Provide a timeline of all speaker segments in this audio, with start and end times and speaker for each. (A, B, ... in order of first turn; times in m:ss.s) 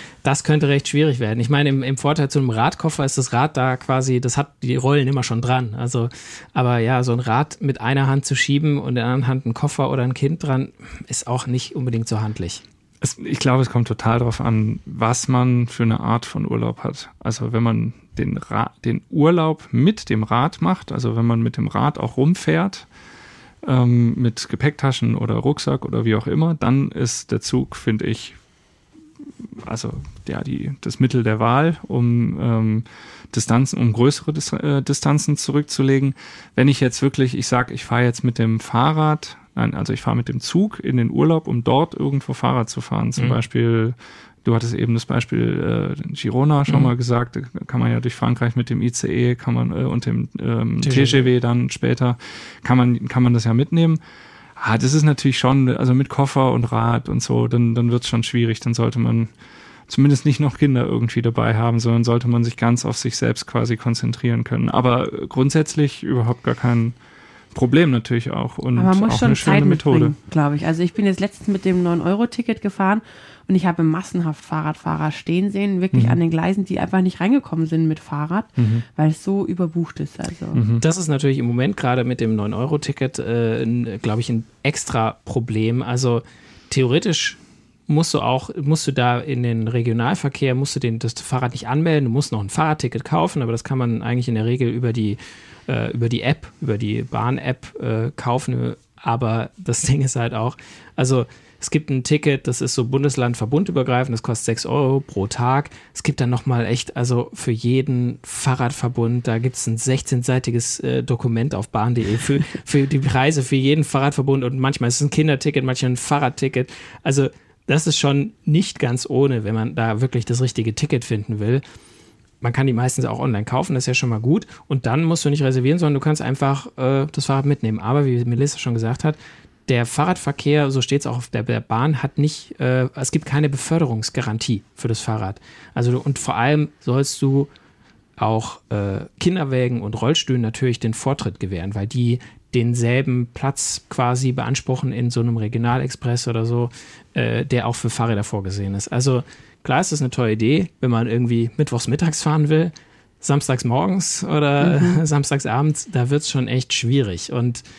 0:00.2-0:12.6 A
0:13.0-0:22.9 B
0:23.6-0:28.4 B
0:29.6-0:54.0 B
0:50.8-0:51.3 A
0:54.6-0:59.3 B
0:59.9-1:07.0 B
1:07.5-1:10.1 B
1:08.8-1:20.6 C
1:15.9-1:16.2 B
1:18.6-1:18.8 B
1:20.5-1:20.8 B
1:20.8-2:01.6 A
2:02.4-2:17.5 A
2:18.2-2:37.6 A
2:34.6-2:35.0 C